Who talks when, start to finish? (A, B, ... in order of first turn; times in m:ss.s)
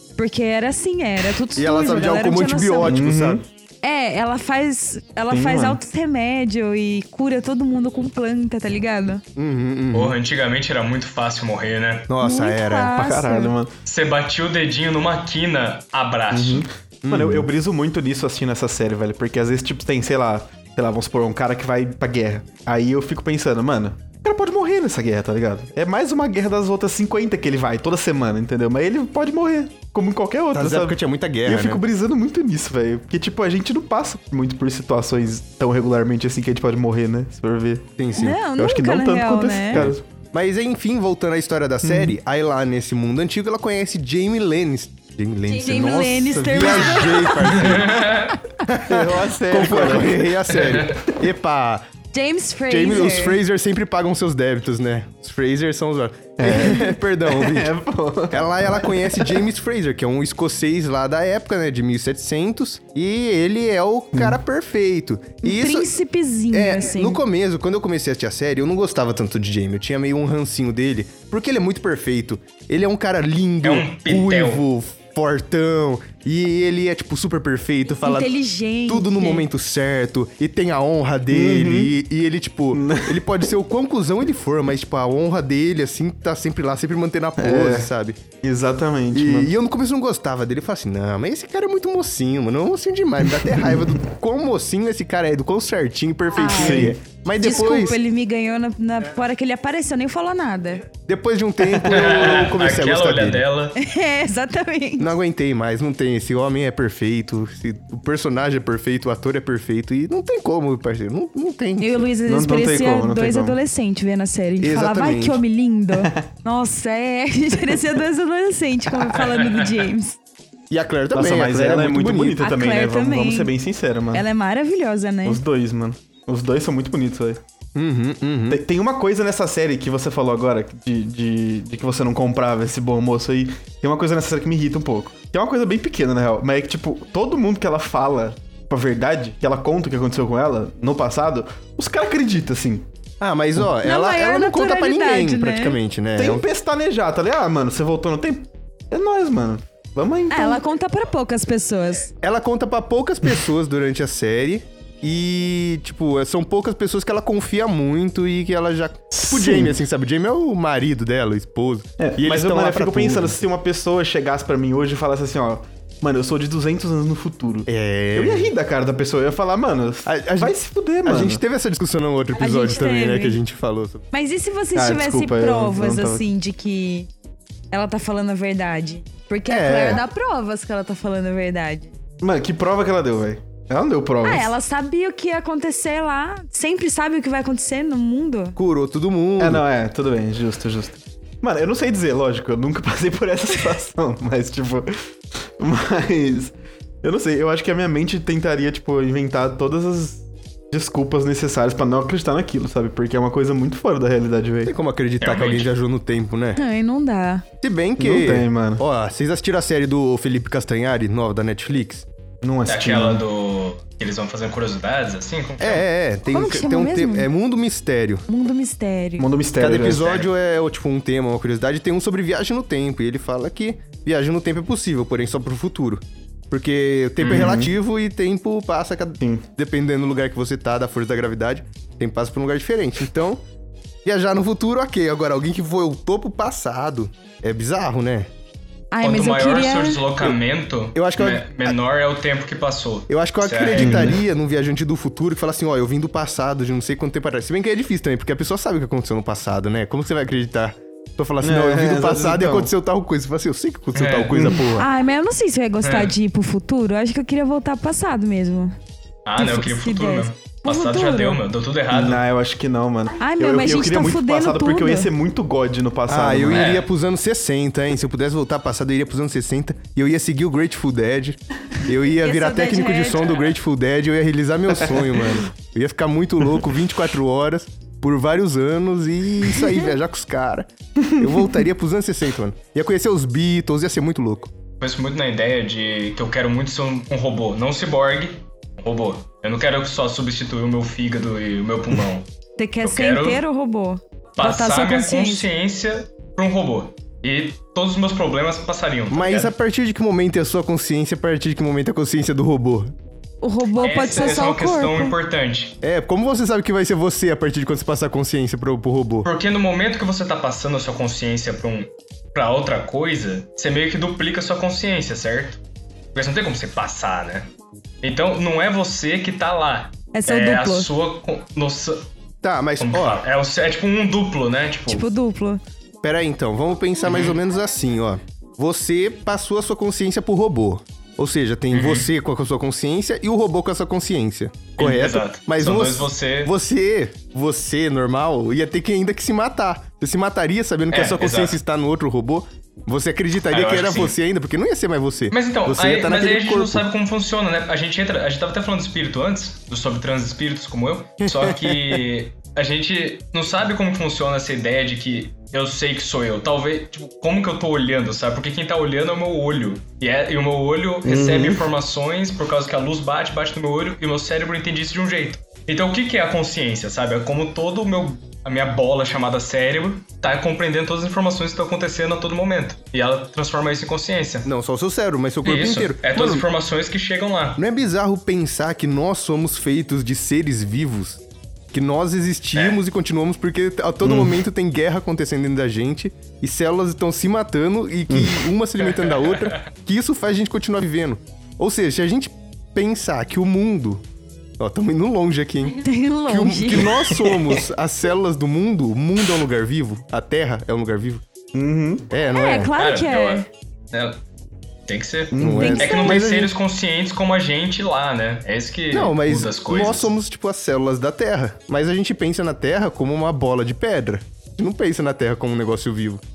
0:00.2-0:03.0 A
0:01.6-0:03.4 B
0:02.9-0:03.4 C
0:03.8-0:09.2 A
0:05.3-0:05.8 C
0:09.4-0:10.2 B
0:09.9-0:12.1 D
0:12.1-0:12.9 B
0:12.2-0:13.5 A
0:12.9-0:13.7 C
0:13.9-0:16.7 D
0:16.3-0:37.9 C
0:17.0-0:17.5 B
0:30.5-0:31.8 B
0:38.0-0:38.4 B
0:38.2-0:39.9 A
0:38.6-0:40.0 C
0:39.7-0:51.9 B
0:41.8-0:42.1 C
0:45.5-0:47.7 A
0:47.4-0:48.4 D
0:48.9-0:50.4 C
0:50.5-0:51.0 D
0:52.1-0:53.4 A
0:52.7-0:57.7 B
0:56.4-0:59.4 C
0:58.3-1:05.9 B
1:05.4-1:07.2 A
1:06.5-1:18.3 B
1:13.6-1:14.6 D
1:18.0-1:19.5 A
1:18.9-1:28.2 B
1:21.3-1:21.9 C
1:22.7-1:23.2 C
1:27.4-1:27.9 C
1:28.4-1:29.5 C
1:29.1-1:38.0 B
1:36.3-1:40.9 A
1:36.4-1:37.0 C
1:41.1-1:43.4 B
1:41.8-1:43.8 D
1:43.8-1:45.1 A
1:45.0-1:52.1 B
1:51.8-2:00.2 A
1:52.3-1:53.6 C
1:54.6-1:55.4 B
1:55.9-1:56.2 C
1:59.2-1:59.8 D
2:00.7-2:02.4 B
2:01.1-2:04.3 C
2:02.4-2:03.5 A
2:04.1-2:05.4 A
2:05.2-2:07.4 C
2:07.8-2:08.6 B
2:08.5-2:22.8 C
2:23.2-2:26.4 B
2:23.8-2:25.8 A
2:26.2-2:30.6 C
2:30.3-2:32.1 A
2:32.2-2:43.4 B
2:39.1-2:39.8 C
2:42.0-2:51.4 C
2:47.7-2:48.5 B
2:50.1-2:50.5 B
2:51.0-2:54.0 B
2:52.4-2:53.4 A
2:54.1-2:57.1 A
2:54.8-2:56.3 C
2:57.7-3:01.9 A
2:59.5-3:00.0 B
3:02.2-3:04.5 C
3:04.2-3:08.6 A
3:08.6-3:09.6 B
3:09.4-3:15.0 C
3:15.6-3:24.7 C
3:24.6-3:26.6 B
3:25.2-3:25.7 D
3:26.6-3:27.5 A
3:27.6-3:32.1 B
3:28.0-3:28.8 C
3:32.4-3:33.2 C
3:32.7-3:35.9 D
3:35.6-3:38.3 B
3:36.3-3:37.3 A
3:38.3-3:39.3 A
3:39.2-3:40.1 C
3:39.6-3:53.4 B
3:39.9-3:40.3 D
3:47.2-3:47.5 D
3:47.2-3:47.7 C
3:54.0-3:58.3 B
3:58.9-4:00.0 A
3:59.0-4:04.2 D
4:00.9-4:01.8 B
4:03.1-4:14.9 B
4:03.8-4:04.1 C
4:11.4-4:12.7 C
4:13.9-4:14.4 D
4:14.3-4:14.7 C
4:14.7-4:18.8 A
4:15.8-4:16.2 D
4:19.3-4:22.2 D
4:19.4-4:21.4 A
4:21.9-4:26.8 C
4:23.2-4:25.1 A
4:26.1-4:44.5 B
4:26.5-4:26.9 D
4:32.2-4:33.5 A
4:34.9-4:35.4 C
4:44.8-4:52.3 D
4:52.6-4:55.4 A
4:52.8-4:53.4 D
4:54.4-4:59.5 D
4:59.1-5:02.9 B
5:03.4-5:05.2 A
5:03.8-5:05.8 D
5:05.8-5:09.3 B
5:09.2-5:15.6 D
5:16.1-5:17.5 D
5:18.0-5:22.1 D
5:20.1-5:20.9 A
5:22.4-5:23.2 B
5:22.8-5:25.1 D
5:24.9-5:25.6 A
5:26.0-5:46.8 B
5:27.0-5:27.4 D
5:31.7-5:32.1 D
5:34.8-5:36.5 D
5:40.9-5:41.6 D
5:43.5-5:44.2 D
5:45.3-6:14.5 D
5:51.2-5:52.0 B
6:01.0-6:01.6 C
6:14.4-6:16.5 B
6:15.4-6:17.6 D
6:17.6-6:34.0 B
6:22.6-6:22.8 D
6:24.0-6:24.4 C
6:28.1-6:28.5 C
6:28.8-6:29.7 D
6:34.6-6:41.2 B
6:35.7-6:37.3 A
6:41.5-6:42.1 C
6:42.1-6:42.7 B
6:42.3-6:43.5 A
6:42.8-6:44.2 D
6:44.9-6:50.1 D
6:45.3-6:46.1 C
6:45.4-6:46.5 B
6:45.6-6:46.3 A
6:48.9-6:56.2 B